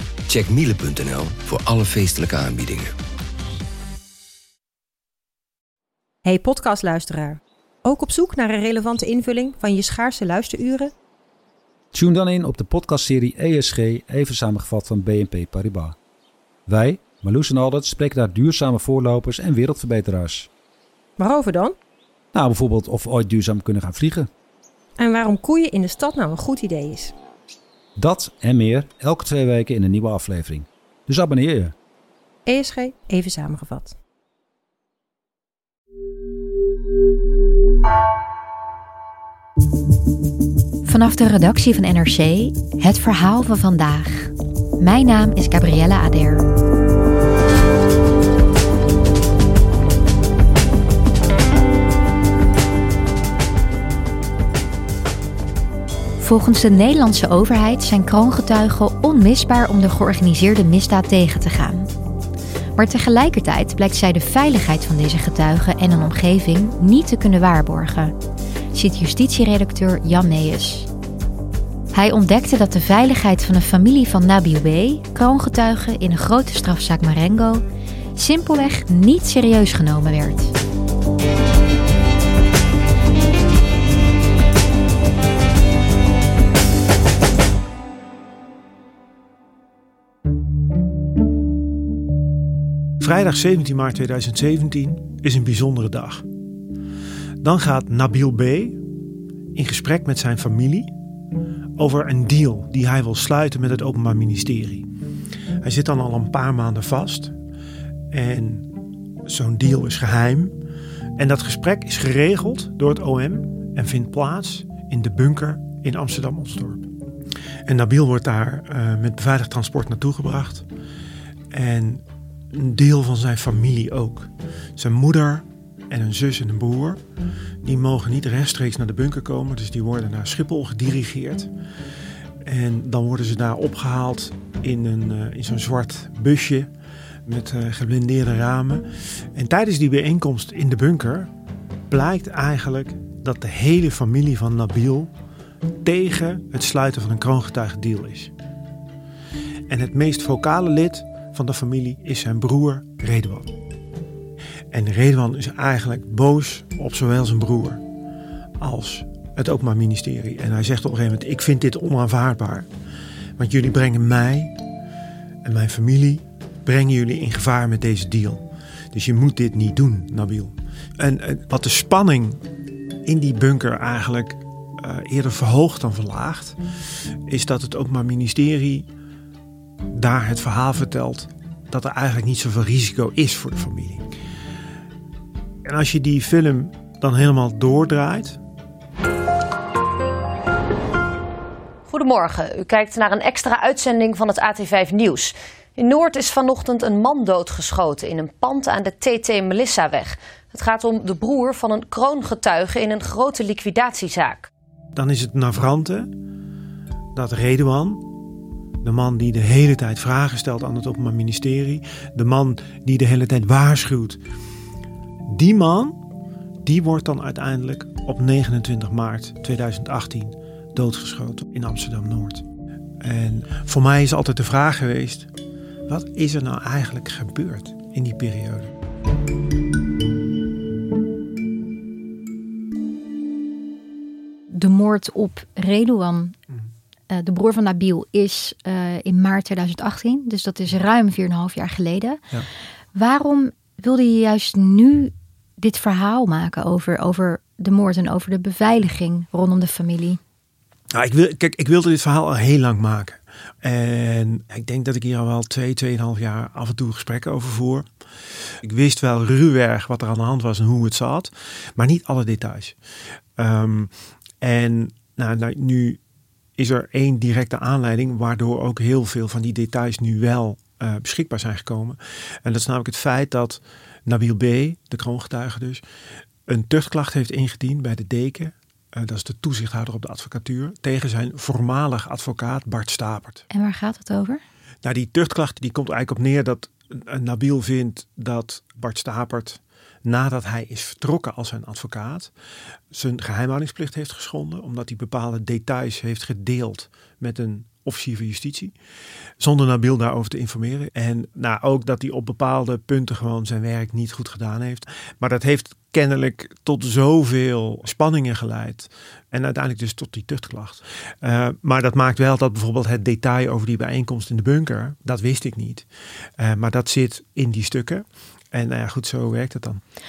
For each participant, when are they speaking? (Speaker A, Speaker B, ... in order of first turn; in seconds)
Speaker A: 0.3-2.9
Speaker B: 6.2-10.9, 21.2-21.8, 25.0-27.1, 32.5-34.0
Speaker C: 11.9-16.0, 16.7-20.5, 22.3-24.3, 28.0-31.8
Speaker D: 40.9-46.5, 56.2-61.9, 62.8-68.2, 68.7-70.9, 71.9-77.6, 78.2-80.5, 234.5-236.3, 237.1-242.2, 242.9-250.2, 283.5-284.4
Speaker E: 93.0-96.3, 97.4-98.8, 99.5-100.9, 101.8-104.9, 105.6-107.3, 108.1-108.7, 109.3-110.6, 111.2-116.9, 117.7-120.7, 121.5-127.0, 127.7-131.5, 132.4-136.7, 137.3-141.3, 141.9-145.1, 145.8-148.3, 149.7-153.5, 154.7-157.8, 158.6-162.7, 163.4-164.6, 165.4-172.4, 173.1-176.6, 177.3-178.9, 179.9-184.1, 185.7-188.4, 204.9-206.1, 207.2-208.1, 208.8-214.2, 215.3-216.0, 216.7-222.4, 223.0-225.3, 225.9-228.7, 250.9-257.9, 258.6-262.8, 263.4-266.0, 266.6-275.8, 276.5-283.5, 284.8-292.3, 292.9-298.7, 299.4-315.9, 316.4-319.8
Speaker F: 191.9-204.5